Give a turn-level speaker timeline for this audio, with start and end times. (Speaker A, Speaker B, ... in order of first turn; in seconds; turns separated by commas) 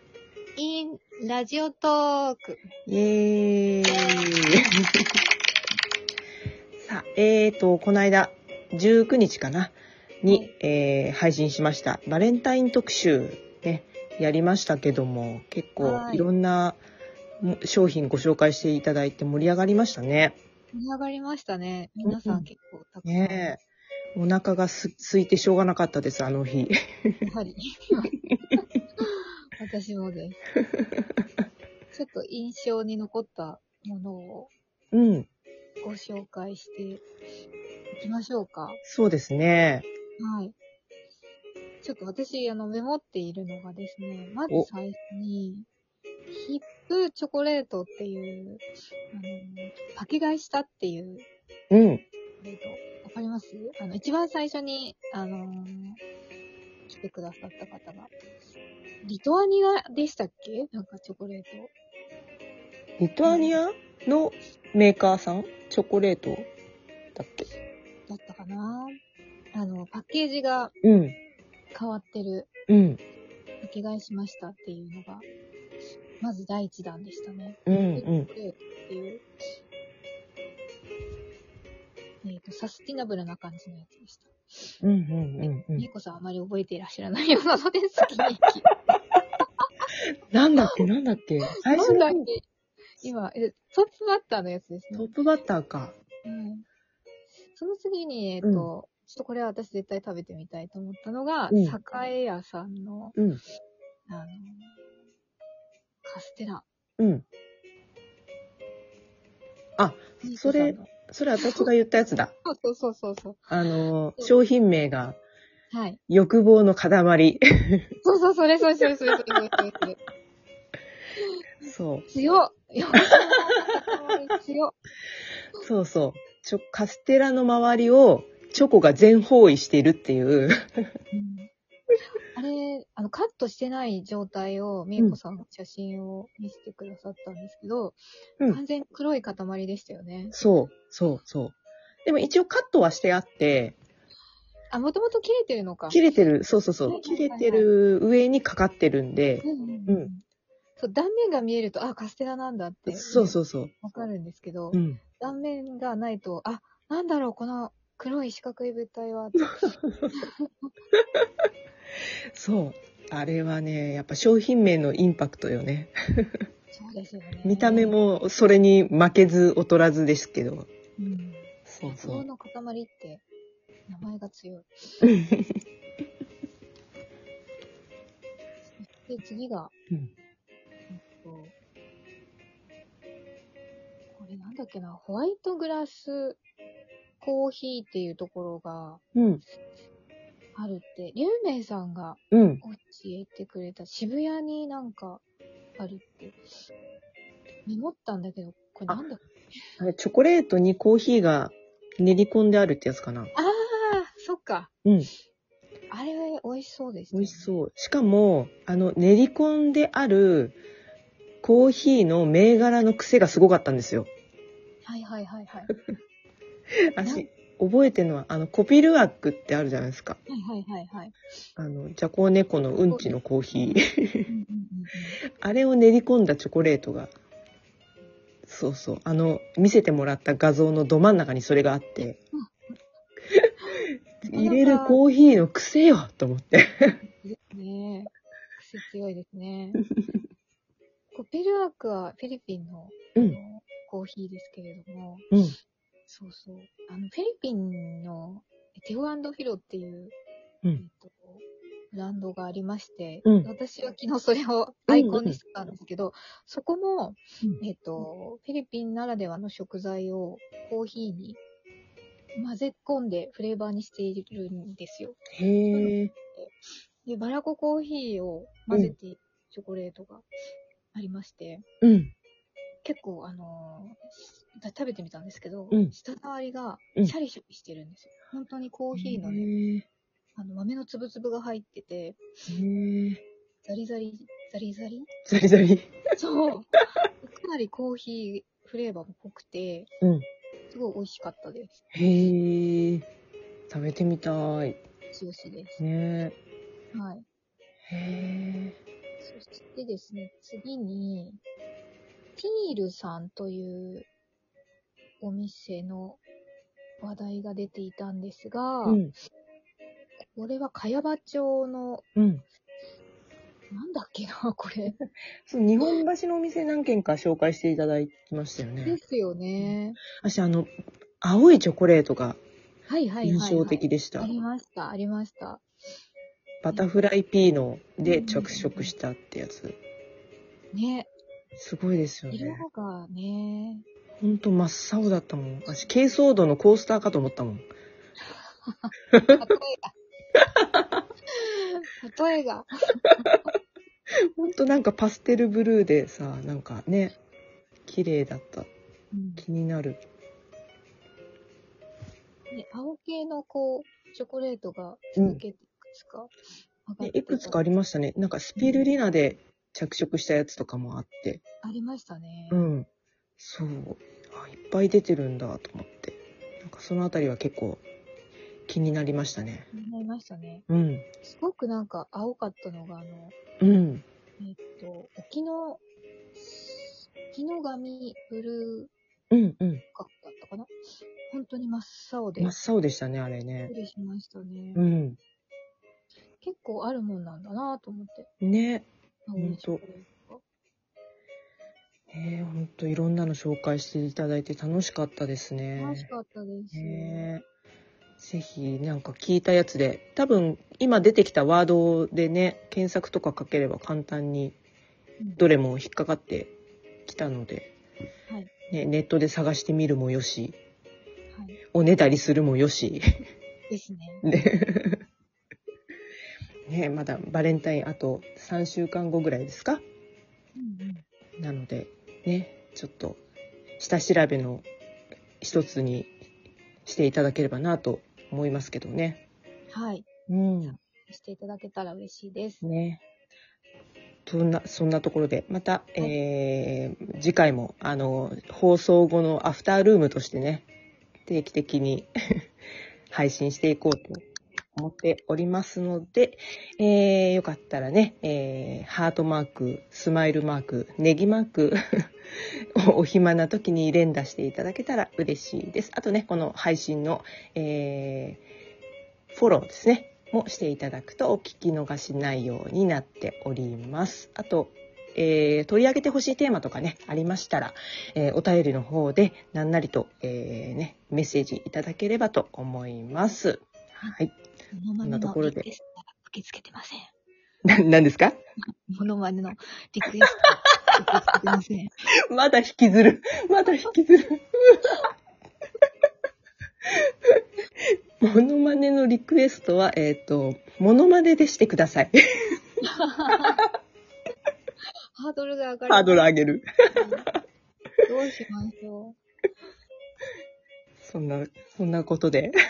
Speaker A: 0.6-2.6, Speaker B: 2.9-4.5, Speaker A: 3.9-4.3, Speaker B: 6.8-16.8, Speaker A: 15.8-16.3, Speaker B: 17.4-20.4, Speaker A: 20.7-23.5, Speaker B: 22.1-22.5, Speaker B: 23.1-23.6, Speaker B: 24.1-27.2, Speaker A: 27.2-28.1, Speaker A: 29.0-30.4, Speaker B: 30.8-31.0, Speaker A: 31.9-34.5, Speaker B: 34.9-35.3, Speaker A: 35.8-37.0, Speaker A: 38.0-38.8, Speaker B: 38.8-39.9, Speaker A: 40.2-40.5, Speaker A: 41.8-45.7, Speaker A: 46.3-51.3, Speaker B: 51.7-52.0, Speaker A: 52.4-56.0, Speaker A: 56.9-58.1, Speaker A: 59.0-61.7, Speaker B: 63.0-66.5, Speaker A: 63.2-63.6, Speaker B: 67.2-67.5, Speaker A: 68.1-69.0, Speaker A: 69.5-70.7, Speaker B: 70.8-71.2, Speaker A: 71.7-72.5, Speaker B: 72.7-73.0, Speaker A: 73.6-75.3, Speaker A: 76.2-79.2, Speaker B: 77.7-78.3, Speaker A: 82.2-84.8, Speaker B: 84.8-85.9, Speaker A: 85.8-88.7, Speaker A: 89.6-89.9, Speaker B: 90.3-92.3, Speaker A: 91.6-92.4, Speaker A: 93.0-95.1, Speaker B: 94.9-96.0, Speaker A: 96.2-96.7, Speaker A: 97.5-103.2, Speaker B: 98.4-98.7, Speaker B: 101.5-101.8, Speaker B: 103.2-103.4, Speaker A: 104.1-104.8, Speaker A: 106.0-106.7, Speaker B: 107.0-107.2, Speaker B: 109.8-112.3, Speaker A: 110.2-111.7, Speaker A: 112.5-113.5, Speaker B: 113.5-115.2, Speaker A: 115.7-116.0, Speaker B: 116.1-117.9, Speaker A: 118.0-120.0, Speaker B: 121.6-122.1, Speaker A: 122.1-124.8, Speaker B: 125.6-130.5, Speaker A: 131.1-131.5, Speaker A: 132.3-140.4, Speaker B: 140.3-143.8, Speaker A: 144.7-146.0, Speaker B: 145.9-150.1, Speaker A: 146.9-147.7, Speaker A: 149.4-150.2, Speaker A: 150.8-160.7, Speaker B: 152.9-153.7, Speaker B: 154.7-155.0, Speaker B: 159.4-160.2, Speaker B: 162.3-166.4, Speaker A: 166.7-167.9, Speaker B: 167.4-170.7, Speaker A: 171.0-173.2, Speaker B: 171.7-172.2, Speaker A: 173.9-174.7, Speaker B: 175.0-175.5, Speaker A: 178.8-179.7, Speaker A: 180.9-181.5, Speaker A: 184.2-186.4, Speaker A: 187.2-189.0, Speaker B: 189.2-189.4, Speaker A: 190.6-195.2, Speaker B: 192.3-192.6, Speaker A: 195.8-196.4, Speaker A: 197.7-199.6, Speaker B: 199.8-203.3, Speaker A: 203.3-204.7, Speaker B: 204.8-205.1, Speaker A: 205.9-207.6, Speaker B: 207.1-210.6, Speaker B: 211.4-214.1, Speaker A: 214.8-215.7, Speaker B: 216.9-220.2, Speaker A: 220.3-221.2, Speaker B: 221.6-224.3, Speaker A: 222.8-223.2, Speaker A: 224.3-225.2, Speaker B: 225.4-227.1, Speaker B: 228.5-232.2, Speaker A: 232.3-232.7, Speaker B: 234.2-237.0, Speaker A: 234.3-235.0, Speaker A: 237.2-239.8, Speaker A: 241.1-245.3, Speaker A: 246.1-250.2, Speaker A: 250.8-261.4, Speaker B: 253.2-253.5, Speaker B: 254.9-255.4, Speaker A: 262.4-266.5, Speaker B: 265.3-266.1, Speaker A: 267.1-270.3, Speaker A: 270.9-271.6, Speaker B: 271.8-272.1, Speaker A: 272.8-279.5, Speaker B: 278.9-279.9, Speaker A: 280.4-282.2, Speaker B: 282.5-283.2, Speaker A: 283.6-285.1, Speaker B: 285.3-285.9, Speaker A: 286.2-289.9, Speaker A: 290.7-291.8, Speaker B: 291.9-293.1, Speaker B: 293.7-294.8, Speaker A: 295.1-295.8, Speaker B: 295.8-296.4, Speaker A: 296.9-297.2, Speaker B: 297.9-298.8, Speaker A: 299.2-301.4, Speaker A: 302.4-304.1, Speaker A: 305.2-306.2, Speaker A: 307.0-309.0, Speaker B: 308.9-309.1, Speaker A: 310.2-312.1, Speaker B: 312.2-312.4, Speaker A: 313.7-315.0, Speaker B: 315.5-319.0, Speaker A: 318.8-320.0, Speaker B: 319.6-322.4, Speaker A: 322.9-325.6, Speaker B: 323.2-324.3, Speaker B: 326.6-329.8, Speaker A: 328.1-328.9, Speaker A: 330.7-331.1, Speaker B: 331.6-332.6, Speaker A: 332.3-333.9, Speaker B: 334.2-337.7, Speaker A: 338.7-339.9, Speaker B: 339.1-339.4, Speaker A: 341.3-343.3, Speaker B: 344.4-347.2, Speaker B: 347.9-348.7, Speaker A: 349.1-349.5, Speaker B: 349.4-350.0, Speaker A: 352.5-356.3, Speaker B: 355.2-355.4, Speaker A: 356.9-357.6, Speaker B: 357.0-361.4, Speaker A: 358.6-358.9, Speaker A: 361.6-362.7, Speaker B: 362.5-362.9, Speaker B: 363.4-367.8, Speaker B: 368.7-369.7, Speaker A: 369.7-370.6, Speaker B: 370.7-371.1, Speaker A: 371.2-373.4, Speaker B: 373.6-374.1, Speaker A: 374.4-375.8, Speaker A: 376.4-378.9, Speaker B: 379.3-379.8, Speaker A: 379.9-380.7, Speaker A: 381.3-382.6, Speaker B: 382.4-383.7, Speaker A: 383.7-384.9, Speaker B: 384.8-385.2, Speaker A: 386.4-388.3, Speaker B: 388.4-389.8, Speaker A: 389.3-390.4, Speaker B: 392.1-396.1, Speaker A: 395.8-397.3, Speaker B: 396.7-397.4, Speaker B: 398.2-404.6, Speaker B: 405.4-406.5, Speaker B: 407.1-407.7, Speaker B: 408.7-410.6, Speaker A: 411.3-411.6, Speaker B: 411.7-413.0, Speaker A: 413.7-414.2, Speaker B: 414.2-415.0, Speaker B: 416.7-419.8, Speaker A: 420.6-421.1, Speaker B: 421.4-423.2, Speaker B: 423.8-424.7, Speaker B: 425.4-426.1, Speaker B: 426.9-429.2, Speaker A: 429.7-430.1, Speaker B: 430.3-430.8, Speaker A: 430.6-432.6, Speaker B: 432.6-433.0, Speaker B: 434.3-440.7, Speaker B: 441.3-442.1, Speaker B: 443.1-444.2, Speaker B: 444.8-451.8, Speaker B: 452.8-458.4, Speaker B: 459.3-474.3, Speaker A: 474.7-477.1, Speaker B: 475.0-475.7, Speaker B: 477.6-478.4, Speaker A: 478.9-481.9, Speaker B: 482.3-484.9, Speaker B: 488.2-492.1, Speaker A: 492.8-493.6, Speaker A: 495.2-496.2, Speaker B: 495.9-496.7, Speaker A: 496.9-497.3, Speaker A: 498.1-499.2, Speaker B: 501.0-502.5